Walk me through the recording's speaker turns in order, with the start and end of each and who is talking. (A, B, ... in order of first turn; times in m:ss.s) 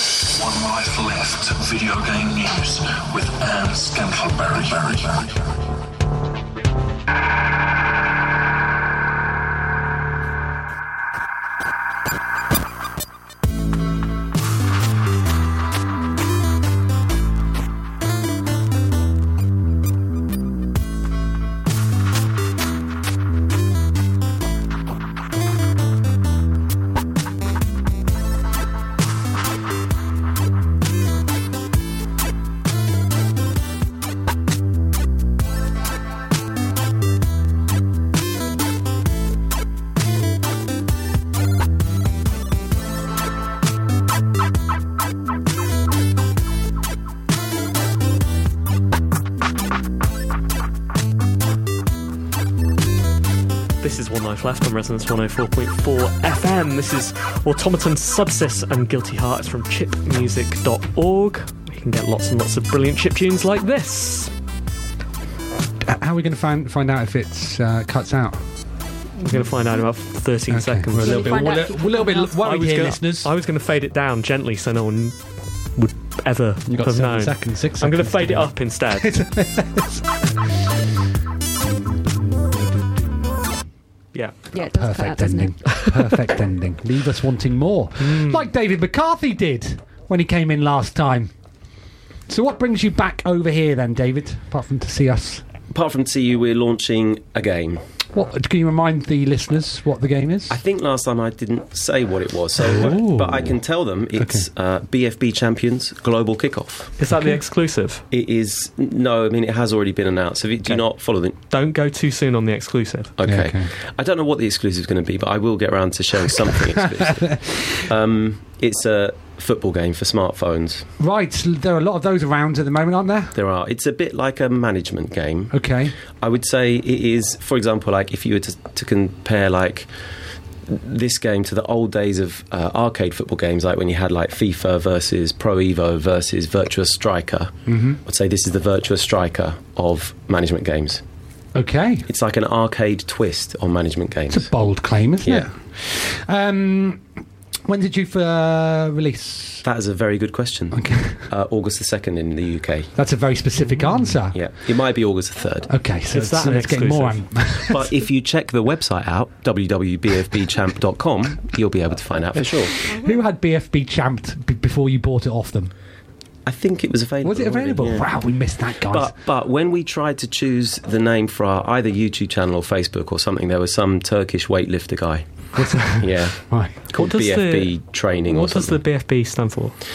0:00.2-0:05.4 A
0:53.8-1:04.3 B
1:05.8-1:08.4 C
1:09.2-1:15.2 B
1:10.5-1:13.3 C
1:11.0-1:12.3 D
1:15.7-1:19.2 B
1:16.7-1:20.1 C
1:21.6-1:23.3 C
1:24.1-1:24.5 B
1:24.5-1:25.6 D
1:24.7-1:31.3 C
1:28.0-1:28.5 B
1:32.3-1:35.4 C
1:35.7-1:37.8 E
1:38.1-1:40.6 C
1:40.5-1:46.9 E
1:42.6-1:43.6 C
1:44.2-1:44.4 C
1:47.0-1:48.0 B
1:48.1-1:51.4 E
1:51.5-1:53.1 B
1:53.2-2:00.9 E
1:53.2-1:53.7 C
1:57.0-1:57.6 C
2:01.0-2:03.3 C
2:03.4-2:09.9 E
2:05.5-2:06.0 C
2:10.7-2:21.0 E
2:17.7-2:18.0 C
2:21.6-2:22.0 C
2:22.1-2:24.5 E
2:24.3-2:27.0 C
2:25.2-2:25.5 E
2:27.6-2:29.6 C
2:29.6-2:32.9 E
2:30.7-2:31.2 C
2:33.0-2:34.4 C
2:34.3-2:35.7 E
2:35.7-2:37.9 C
2:36.1-2:37.5 B
2:37.7-2:42.8 E
2:42.8-2:45.7 C
2:42.9-2:43.2 D
2:46.4-2:48.1 E
2:47.2-2:49.1 C
2:48.9-2:58.8 E
2:55.6-2:56.8 C
2:56.9-2:59.8 B